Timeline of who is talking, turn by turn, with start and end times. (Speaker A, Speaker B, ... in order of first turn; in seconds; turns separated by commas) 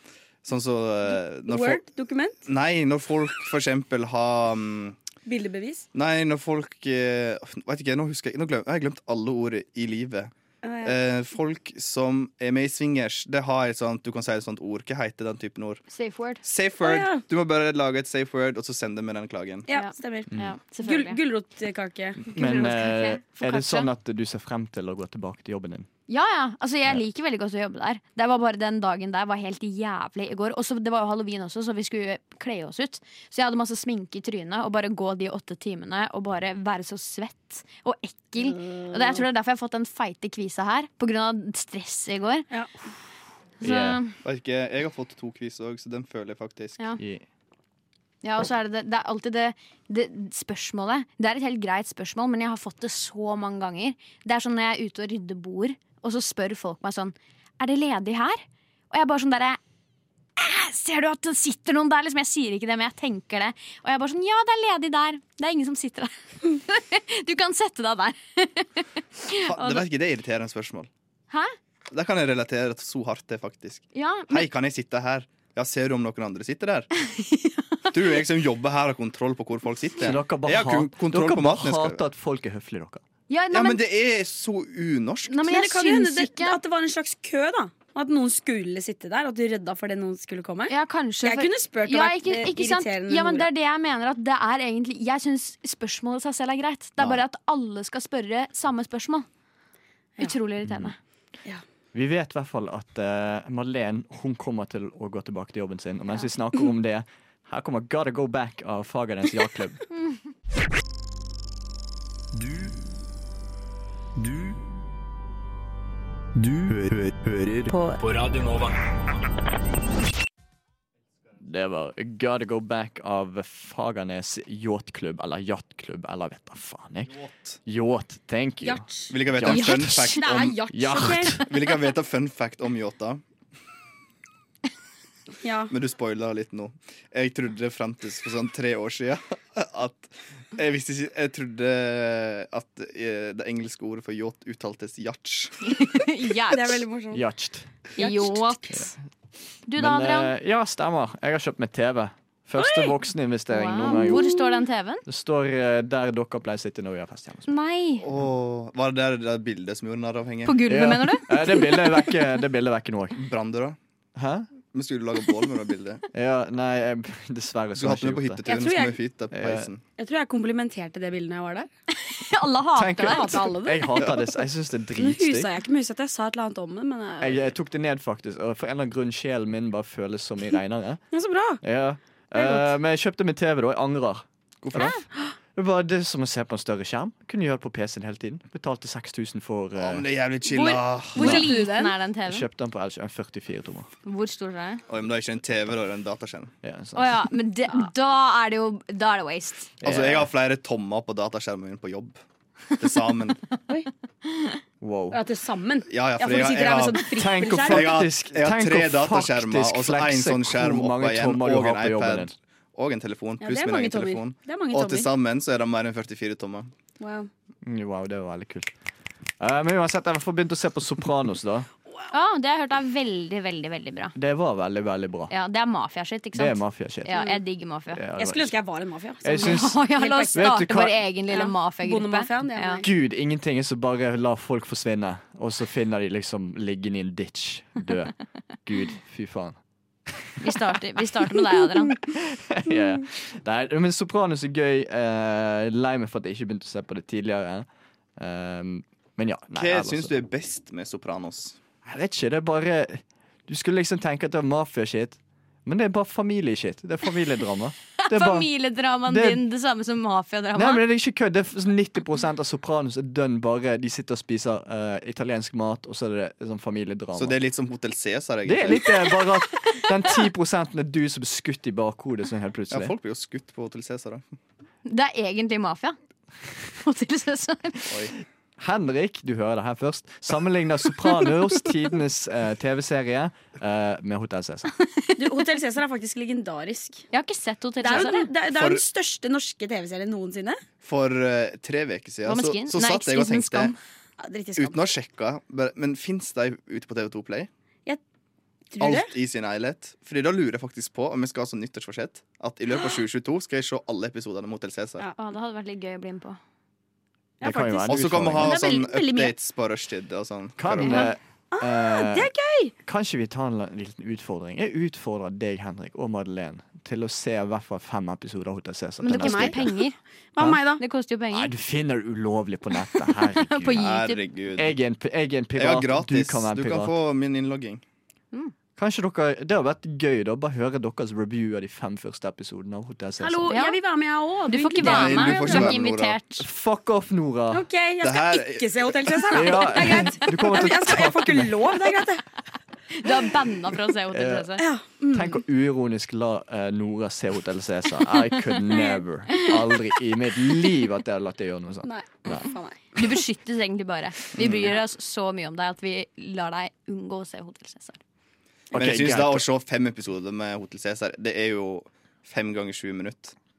Speaker A: 0.4-1.8, Speaker B: 1.5-2.4, Speaker A: 2.5-5.0, Speaker B: 5.2-5.8, Speaker A: 5.9-10.3, Speaker B: 10.6-10.9, Speaker A: 10.8-15.8, Speaker C: 15.9-16.4, Speaker A: 16.4-19.7, Speaker B: 16.8-17.2, Speaker B: 19.7-22.5, Speaker C: 19.7-21.2, Speaker D: 22.2-25.9, Speaker C: 22.4-23.9, Speaker C: 26.1-42.5, Speaker B: 38.6-39.2, Speaker C: 43.6-44.2, Speaker D: 43.6-44.0, Speaker A: 44.2-46.8, Speaker D: 47.0-47.2, Speaker C: 48.2-59.6, Speaker C: 60.4-69.8, Speaker A: 69.5-70.9, Speaker C: 71.3-71.5, Speaker A: 71.9-76.9, Speaker C: 73.9-74.5, Speaker C: 77.1-77.6, Speaker A: 77.9-82.0, Speaker D: 80.0-83.0, Speaker C: 83.3-83.8, Speaker A: 83.5-85.4, Speaker C: 85.3-86.6, Speaker B: 85.4-93.5, Speaker C: 90.7-99.3, Speaker C: 100.2-101.0, Speaker D: 100.7-100.9, Speaker D: 101.9-109.8, Speaker E: 112.3-112.8, Speaker E: 114.2-114.6, Speaker E: 116.3-118.8, Speaker D: 121.4-131.4, Speaker A: 127.1-127.6, Speaker B: 128.6-131.5, Speaker A: 129.1-130.6, Speaker C: 129.8-130.1, Speaker A: 131.4-133.2, Speaker B: 135.4-135.7, Speaker A: 135.7-145.7, Speaker C: 145.7-146.8, Speaker B: 146.5-147.2, Speaker D: 147.1-147.7, Speaker B: 147.9-148.6, Speaker C: 148.0-148.9, Speaker C: 149.7-150.3, Speaker D: 149.8-154.3, Speaker B: 152.6-152.9, Speaker C: 153.5-155.0, Speaker B: 153.9-154.4, Speaker D: 155.1-157.5, Speaker C: 157.5-158.1, Speaker A: 158.0-160.6, Speaker C: 160.4-162.1, Speaker D: 160.7-163.2, Speaker A: 163.2-163.8, Speaker D: 164.2-164.5, Speaker A: 164.7-166.0, Speaker D: 166.1-168.4, Speaker A: 167.8-169.8, Speaker B: 168.4-169.0, Speaker D: 169.3-169.7, Speaker B: 170.0-171.7, Speaker C: 172.0-173.4, Speaker D: 172.7-175.5, Speaker B: 173.0-174.2, Speaker B: 175.0-177.4, Speaker D: 177.2-181.0, Speaker B: 181.1-181.6, Speaker D: 181.6-184.9, Speaker B: 182.3-182.7, Speaker A: 184.6-184.9, Speaker D: 185.5-190.0, Speaker A: 189.8-191.4, Speaker B: 190.5-191.9, Speaker C: 191.2-192.4, Speaker D: 191.2-191.5, Speaker D: 192.3-193.9, Speaker C: 194.0-194.8, Speaker A: 194.9-196.5, Speaker D: 196.6-197.3, Speaker C: 196.9-199.8, Speaker D: 199.8-200.3, Speaker A: 199.8-202.2, Speaker A: 202.7-203.4, Speaker C: 204.2-204.6, Speaker D: 204.8-205.2, Speaker B: 205.1-208.0, Speaker A: 205.9-216.7, Speaker D: 207.2-212.3, Speaker B: 213.4-215.1, Speaker B: 217.0-217.3, Speaker D: 217.6-218.7, Speaker D: 219.4-221.7, Speaker C: 222.1-224.1, Speaker D: 224.2-225.3, Speaker C: 225.3-228.0, Speaker D: 226.3-227.1, Speaker B: 227.1-227.4, Speaker D: 227.9-228.5, Speaker B: 228.2-230.6, Speaker D: 229.2-229.8, Speaker C: 229.4-232.8, Speaker D: 230.3-231.0, Speaker B: 231.3-232.9, Speaker D: 232.8-238.1, Speaker D: 238.6-239.6, Speaker D: 240.1-247.7, Speaker C: 240.4-242.0, Speaker D: 248.2-250.1, Speaker A: 249.6-251.6, Speaker D: 251.8-258.5, Speaker C: 258.0-260.8, Speaker D: 259.1-259.4, Speaker D: 260.5-267.4, Speaker A: 267.1-269.0, Speaker D: 268.4-272.9, Speaker A: 272.7-274.2, Speaker C: 274.8-276.0, Speaker C: 276.6-278.0, Speaker A: 277.9-278.1, Speaker D: 278.6-284.7, Speaker C: 284.9-285.3, Speaker B: 285.2-287.0, Speaker C: 287.1-288.3, Speaker B: 287.8-290.6, Speaker A: 288.5-288.8, Speaker A: 290.8-293.7, Speaker C: 292.2-293.8, Speaker B: 294.2-294.9, Speaker A: 294.6-297.5, Speaker B: 298.7-299.1, Speaker A: 298.8-305.0, Speaker C: 305.1-306.4, Speaker B: 307.4-309.3, Speaker D: 307.4-308.6, Speaker A: 307.9-311.1, Speaker D: 310.6-312.3, Speaker B: 311.5-312.7, Speaker D: 312.8-319.7, Speaker C: 319.0-319.9, Speaker B: 319.1-319.8, Speaker B: 320.3-320.8, Speaker C: 320.8-321.5, Speaker D: 321.3-323.8, Speaker C: 323.2-324.2, Speaker A: 323.8-324.8, Speaker D: 324.6-326.9, Speaker A: 325.5-327.8, Speaker D: 328.8-333.6, Speaker B: 333.2-335.7, Speaker C: 333.5-333.8, Speaker C: 334.5-336.5, Speaker A: 334.8-336.2, Speaker D: 336.4-337.6, Speaker B: 337.5-342.2, Speaker A: 338.0-339.6, Speaker D: 339.3-341.8, Speaker C: 342.9-344.6, Speaker D: 344.1-344.5, Speaker B: 344.6-345.4, Speaker D: 345.1-352.5, Speaker B: 348.7-349.0, Speaker B: 351.8-352.8, Speaker C: 352.9-358.0, Speaker A: 354.4-354.7, Speaker D: 358.7-359.4, Speaker A: 358.7-363.3